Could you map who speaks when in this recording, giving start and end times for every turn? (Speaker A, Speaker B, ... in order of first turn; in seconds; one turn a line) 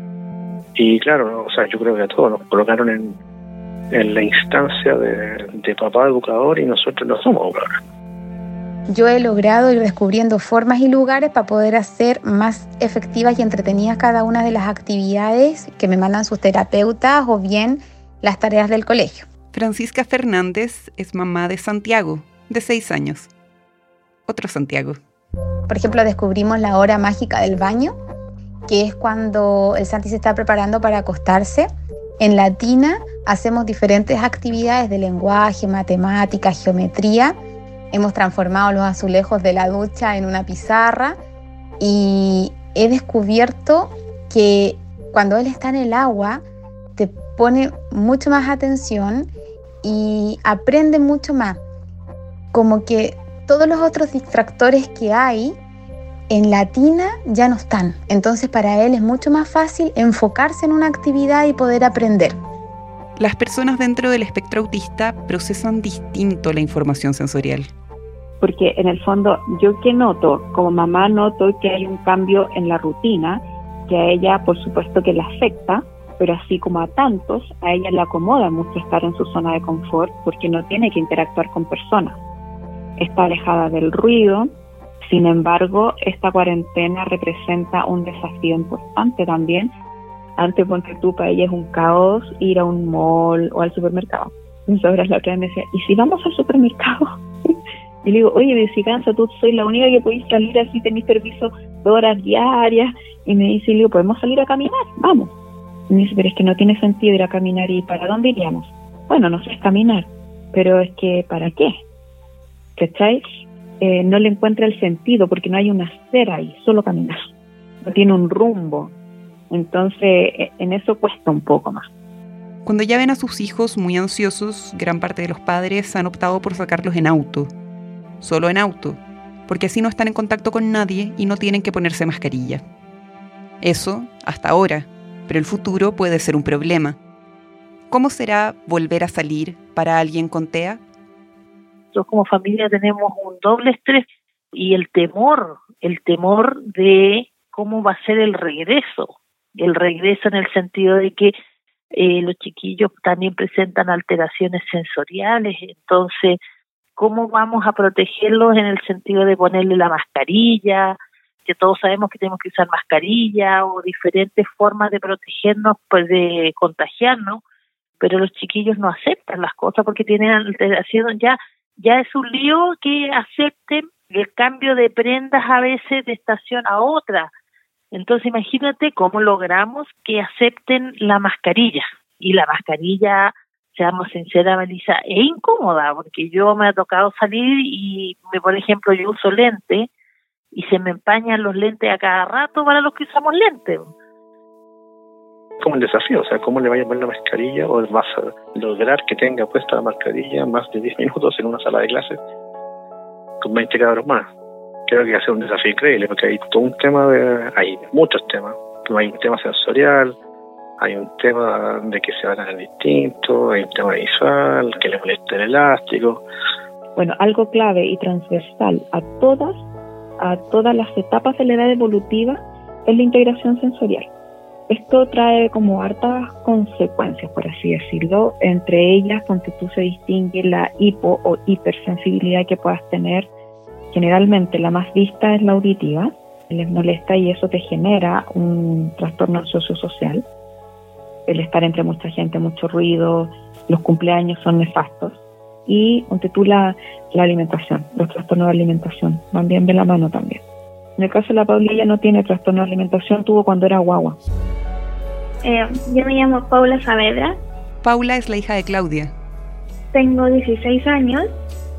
Speaker A: 0.8-3.2
Speaker A: 3.9-7.8
Speaker B: 8.9-19.3
Speaker C: 19.5-23.3
Speaker C: 24.3-25.0
Speaker B: 25.7-27.9
Speaker B: 28.7-31.7
Speaker B: 32.2-37.4
Speaker B: 37.9-41.2
Speaker B: 41.8-46.4
Speaker B: 47.0-49.3
Speaker B: 49.8-51.6
Speaker B: 52.5-55.6
Speaker B: 56.3-62.4
Speaker C: 63.2-67.7
Speaker D: 68.4-82.2
Speaker D: 83.0-84.5
Speaker D: 85.1-89.7
Speaker D: 90.4-97.1
Speaker D: 98.0-105.3
Speaker D: 105.9-111.7
Speaker D: 112.8-113.2
Speaker D: 113.8-117.2
Speaker D: 117.8-118.9
Speaker D: 119.5-121.9
Speaker C: 122.7-127.5
Speaker C: 128.2-132.6
Speaker C: 133.6-137.0
Speaker C: 137.9-140.8
Speaker E: 141.9-151.3
Speaker E: 152.0-156.4
Speaker E: 157.0-167.4
Speaker E: 168.0-177.3
Speaker E: 177.9-189.9
Speaker E: 190.5-193.8
Speaker A: 195.6-202.2
Speaker A: 203.4-204.3
Speaker A: 204.9-210.2
Speaker A: 210.8-216.2
Speaker D: 217.0-219.6
Speaker D: 220.2-224.0
Speaker D: 224.7-233.3
Speaker D: 233.9-240.2
Speaker D: 241.3-250.4
Speaker D: 251.0-254.2
Speaker F: 255.4-257.4
Speaker C: 257.8-259.1
Speaker F: 259.9-261.3